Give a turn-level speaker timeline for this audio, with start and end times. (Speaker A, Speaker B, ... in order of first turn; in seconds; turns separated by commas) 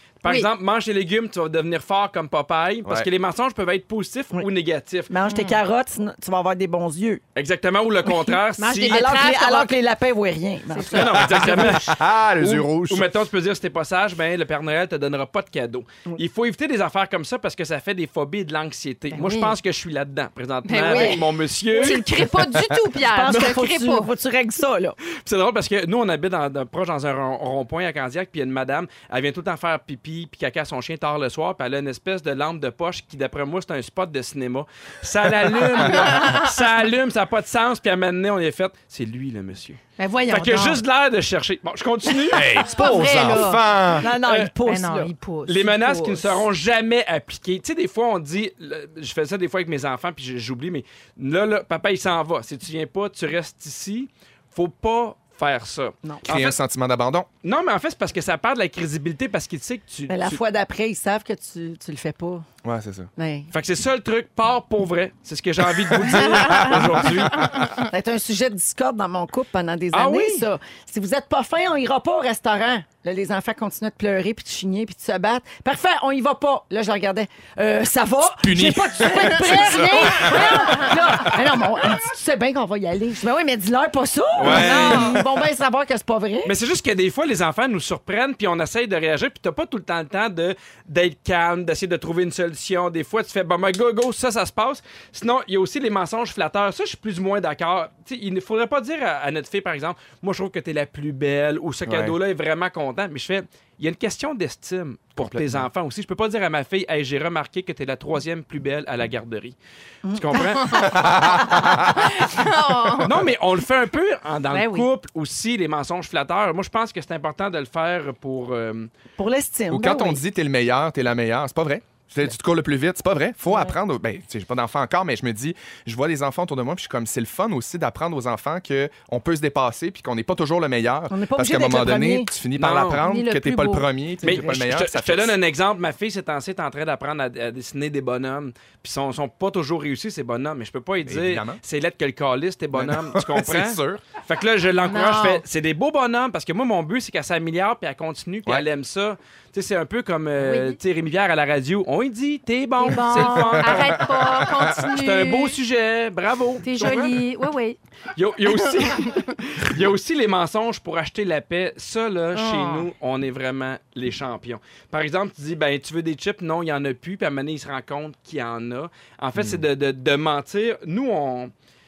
Speaker A: 0.2-5.1, Speaker B: 5.1-7.2, Speaker C: 5.3-5.6, Speaker A: 7.3-9.1, Speaker B: 8.1-11.3, Speaker C: 8.6-9.8, Speaker C: 10.7-11.7, Speaker A: 10.9-22.0, Speaker D: 11.0-13.1, Speaker C: 19.1-19.6, Speaker C: 20.7-21.2, Speaker B: 20.9-22.3, Speaker C: 21.8-24.1, Speaker B: 23.0-25.0, Speaker A: 25.2-42.7, Speaker D: 35.5-36.1, Speaker C: 40.0-40.8, Speaker D: 42.3-44.1, Speaker C: 42.6-43.6, Speaker B: 44.0-45.1, Speaker A: 44.2-44.5, Speaker C: 44.6-46.3, Speaker A: 45.5-56.6, Speaker D: 56.2-57.3, Speaker A: 57.4-60.4, Speaker B: 60.1-62.5, Speaker D: 62.6-63.1, Speaker B: 63.2-63.5, Speaker A: 63.5-67.7, Speaker D: 66.4-66.8, Speaker B: 67.8-86.5, Speaker A: 69.9-70.5, Speaker D: 78.4-81.5, Speaker C: 80.1-80.9, Speaker A: 84.3-85.1, Speaker D: 84.4-85.3, Speaker C: 84.7-85.0, Speaker A: 86.4-109.6, Speaker D: 101.9-102.2, Speaker D: 105.2-105.7, Speaker B: 110.0-110.4, Speaker A: 110.1-110.9, Speaker D: 110.8-112.1, Speaker B: 111.3-112.3, Speaker C: 112.2-113.1, Speaker A: 113.0-118.9, Speaker C: 114.5-114.9, Speaker B: 119.2-120.2, Speaker D: 119.7-135.4, Speaker B: 131.1-132.3, Speaker A: 132.6-133.0, Speaker C: 133.0-133.9, Speaker B: 134.2-134.5, Speaker A: 134.2-154.1, Speaker D: 141.0-141.6, Speaker D: 142.7-144.0, Speaker C: 144.9-145.4, Speaker C: 150.4-150.8, Speaker C: 152.8-155.6, Speaker D: 153.2-154.7, Speaker A: 154.8-157.2, Speaker C: 156.6-157.8, Speaker A: 158.2-171.5, Speaker C: 162.3-162.9, Speaker D: 169.3-169.6